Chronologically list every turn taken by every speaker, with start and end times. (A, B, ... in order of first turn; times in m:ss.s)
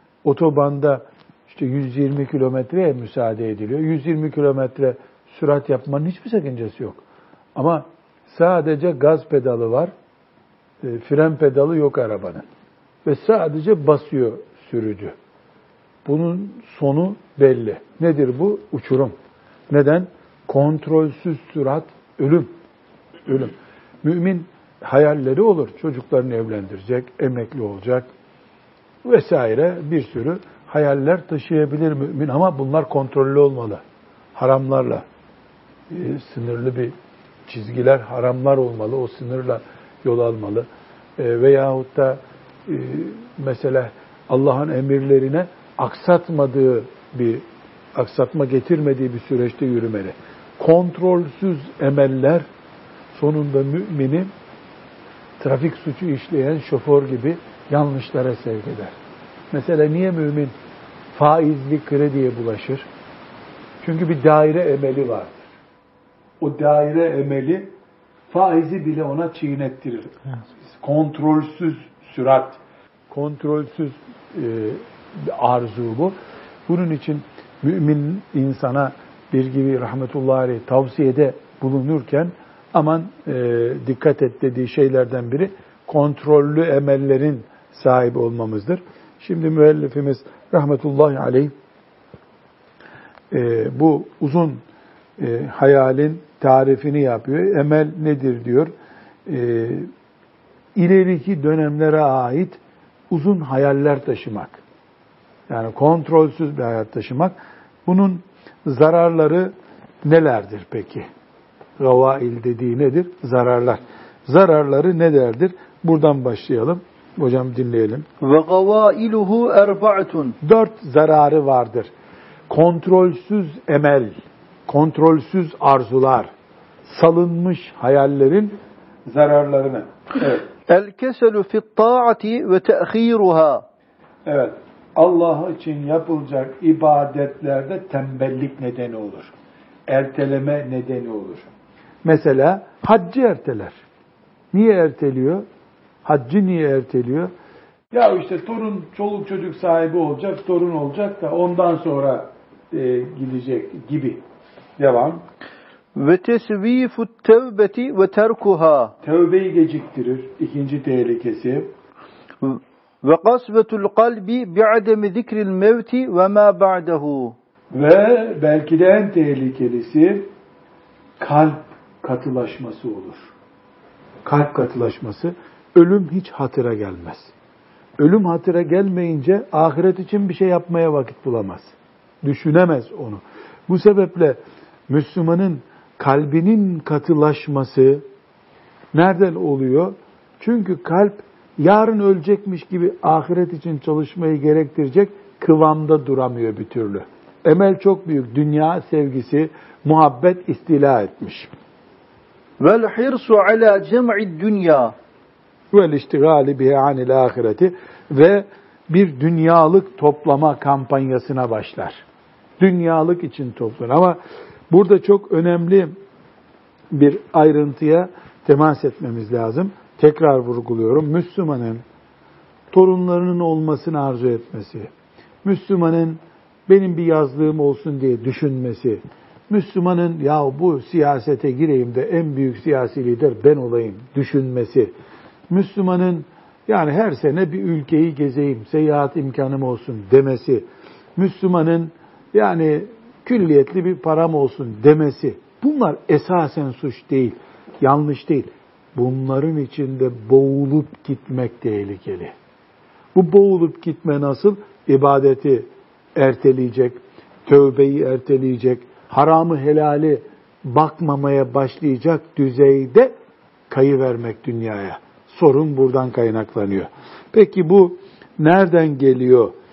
0:00.2-0:07.0 A
0:07.6-0:09.9 A
0:10.8-0:12.4 A
0:13.0-0:15.2 A
0:16.0-0:19.1 A
0:19.7-0:22.5 A
0:23.3-0:28.1 A
0:29.0-0:33.8 A
0:34.4-0:35.0 A
0:35.9-0:36.9 A
0:37.5-0:47.4 A
0:48.0-0:52.4 A
0:53.1-0:54.3 A
0:55.4-0:58.9 A
0:59.5-1:00.5 A
1:01.1-1:02.9 A
1:03.8-1:05.4 A
1:06.4-1:07.7 A
1:08.3-1:10.1 A
1:10.8-1:12.6 A
1:13.1-1:16.2 A
1:16.7-1:31.5 A
1:33.3-1:34.6 A
1:35.2-1:38.7 A
1:39.3-1:39.9 A
1:40.7-1:42.6 A
1:43.1-1:44.6 A
1:45.5-1:47.3 A
1:47.8-1:49.5 A
1:50.0-1:51.1 A
1:51.8-1:58.0 A
1:58.2-2:00.4 B
2:00.4-2:01.9 A
2:02.5-2:04.2 A
2:04.7-2:06.3 A
2:06.8-2:10.5 A
2:10.7-2:13.6 B
2:14.2-2:19.3 A
2:19.9-2:21.5 A
2:22.0-2:23.8 A
2:24.5-2:25.4 A
2:26.0-2:27.3 A
2:27.9-2:34.2 A
2:34.8-2:35.2 A
2:35.9-2:38.9 B
2:39.0-2:41.7 A
2:42.4-2:47.4 B
2:47.7-2:50.3 A
2:51.2-2:53.3 A
2:54.2-2:57.3 A
2:58.0-3:08.0 A
3:08.9-3:21.5 A
3:22.6-3:24.9 B
3:25.7-3:32.0 A
3:32.6-3:34.2 A
3:34.7-3:35.9 A
3:36.9-3:41.8 A
3:42.7-3:44.9 A
3:45.4-3:54.9 A
3:55.5-4:12.3 A
4:13.1-4:23.1 A
4:23.7-4:29.5 A